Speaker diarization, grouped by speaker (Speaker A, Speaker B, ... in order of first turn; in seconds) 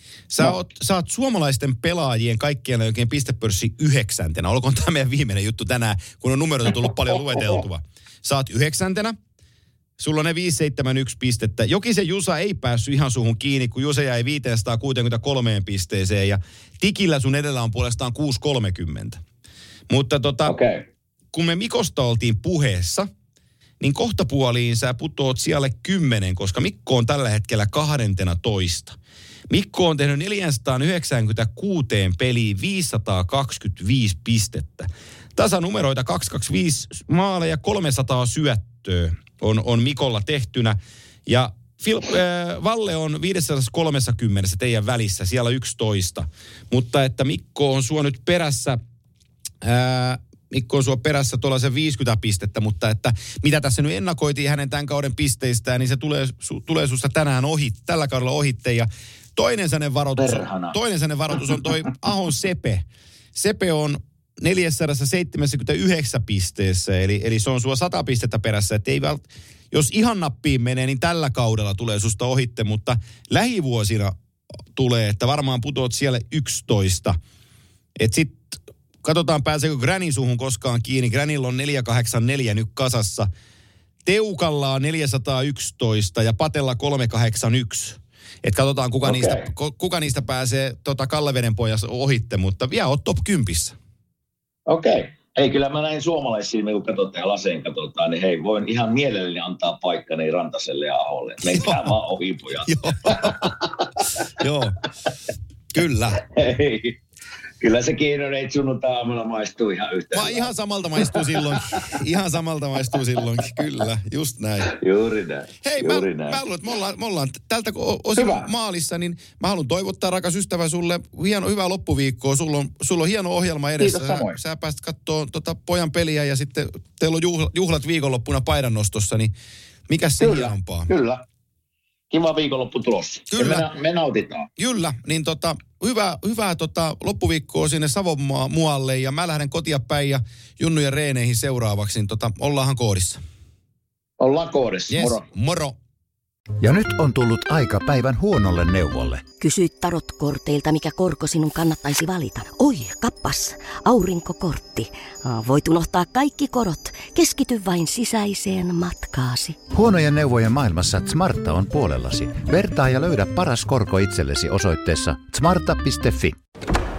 Speaker A: 0.3-9.2, 10.0-19.2, 19.9-20.5, 21.3-23.1, 23.8-29.0, 29.5-48.8, 49.6-74.1, 74.7-77.2, 78.0-83.3, 84.0-93.8, 101.5-101.9, 102.7-103.6, 104.2-104.8, 105.7-106.2, 110.1-114.7, 115.6-129.3, 129.9-130.9, 133.3-133.7, 134.6-143.2, 144.9-145.8
Speaker B: 20.4-20.8, 60.1-60.8, 89.0-89.5, 94.7-103.8, 106.2-107.0, 107.6-110.5, 111.1-111.9, 114.7-116.4, 118.2-118.5, 123.8-124.4, 130.2-131.2, 132.1-134.5, 144.2-145.2
Speaker C: 146.6-149.2, 159.7-166.4
Speaker D: 149.4-159.7